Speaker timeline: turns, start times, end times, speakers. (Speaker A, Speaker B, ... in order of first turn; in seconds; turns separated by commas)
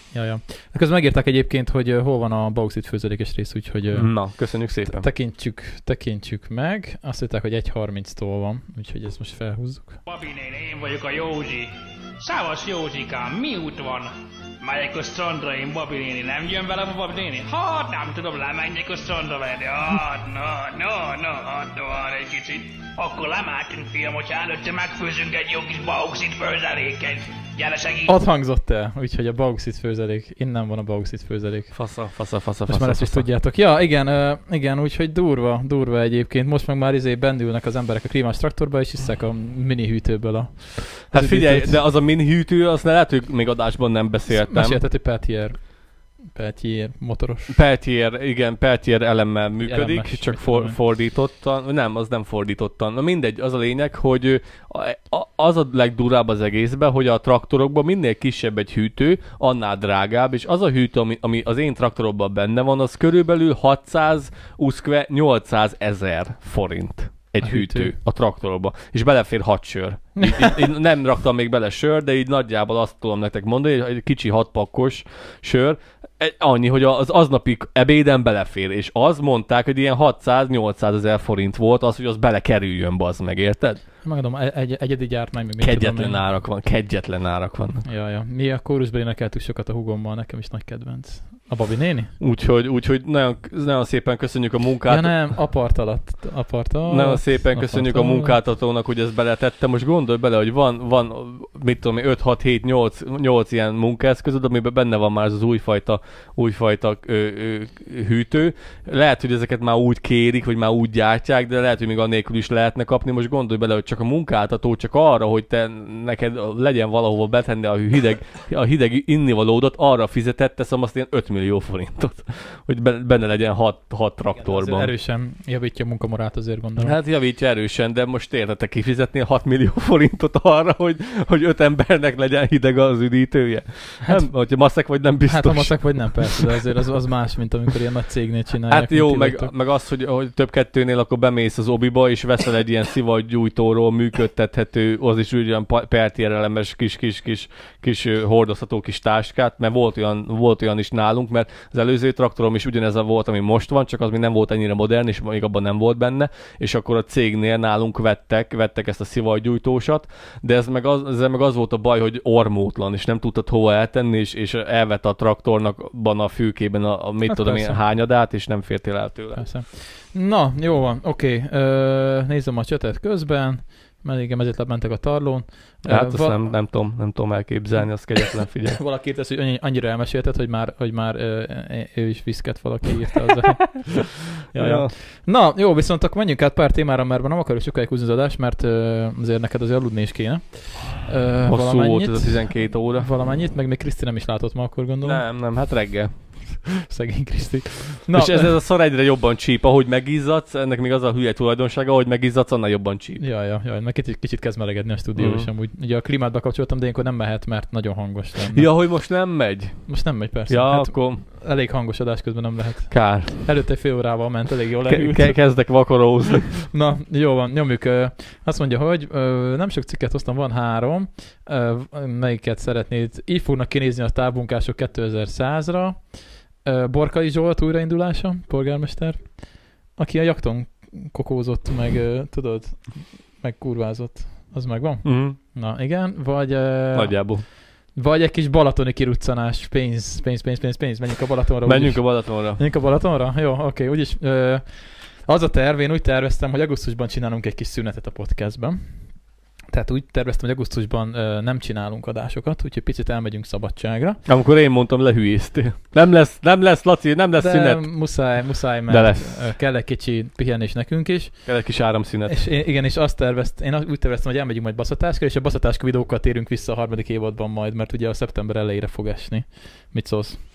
Speaker A: 0.1-10.0, Speaker B: 3.9-5.0, Speaker C: 10.1-14.1, Speaker C: 14.6-28.1, Speaker A: 28.1-31.8, Speaker B: 31.7-33.3, Speaker A: 32.6-41.8, Speaker B: 41.1-44.8, Speaker A: 44.3-47.5, Speaker B: 47.5-83.8, Speaker A: 49.6-50.8, Speaker A: 67.4-67.9, Speaker A: 70.2-70.6, Speaker A: 84.0-86.2, Speaker B: 85.6-87.8, Speaker A: 87.8-92.1, Speaker B: 92.2-95.3, Speaker A: 94.9-98.4, Speaker B: 96.9-124.9, Speaker A: 124.4-127.0, Speaker B: 126.8-136.4, Speaker A: 134.0-139.5, Speaker B: 138.7-169.5, Speaker A: 167.3-167.9, Speaker A: 169.3-176.6, Speaker B: 175.8-178.8, Speaker A: 178.7-195.3, Speaker B: 184.5-184.9, Speaker B: 191.4-193.1, Speaker B: 195.0-196.1, Speaker A: 196.9-198.6, Speaker B: 198.1-203.2, Speaker A: 203.2-209.1, Speaker B: 205.2-205.5, Speaker B: 208.5-211.2, Speaker A: 209.9-215.8, Speaker B: 212.9-213.4, Speaker B: 214.9-216.7, Speaker A: 216.7-254.2, Speaker B: 235.0-235.4, Speaker B: 236.9-237.4, Speaker B: 241.6-242.6, Speaker B: 254.2-259.6, Speaker A: 257.4-270.4, Speaker B: 261.4-262.5